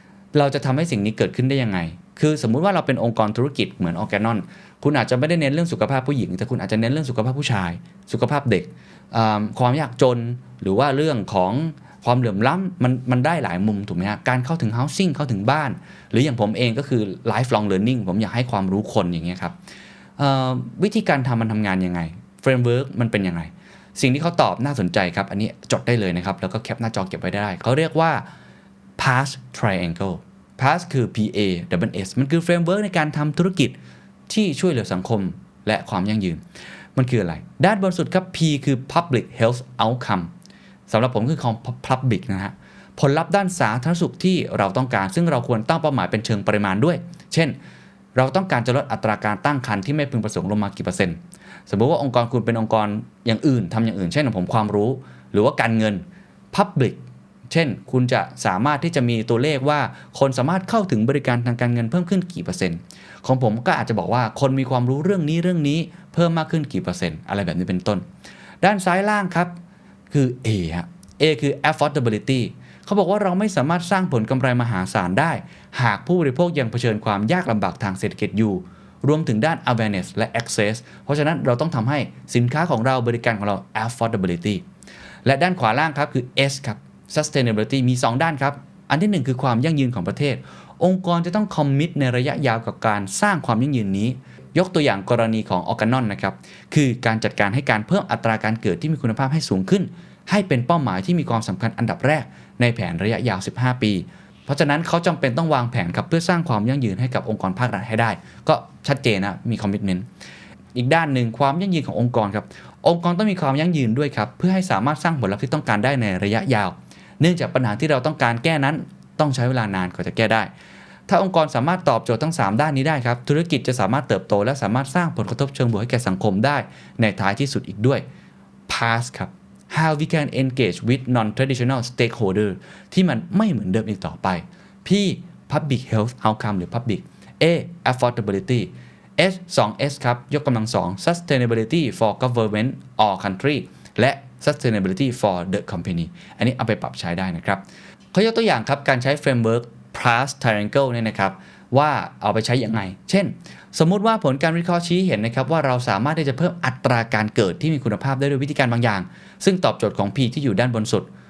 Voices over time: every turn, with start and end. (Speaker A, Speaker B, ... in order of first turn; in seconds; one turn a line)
Speaker A: 0.3-19.6
Speaker A: 20.2-28.3
Speaker A: 29.0-33.8
Speaker A: 34.3-36.4
Speaker A: 37.0-40.3
Speaker A: 40.9-47.6
Speaker A: 48.1-68.0
Speaker A: 68.6-69.5
Speaker A: 70.1-84.6
Speaker A: 85.2-110.1
Speaker A: 110.8-120.5
Speaker A: 121.1-128.1
Speaker A: 128.7-147.6
Speaker A: 148.1-161.1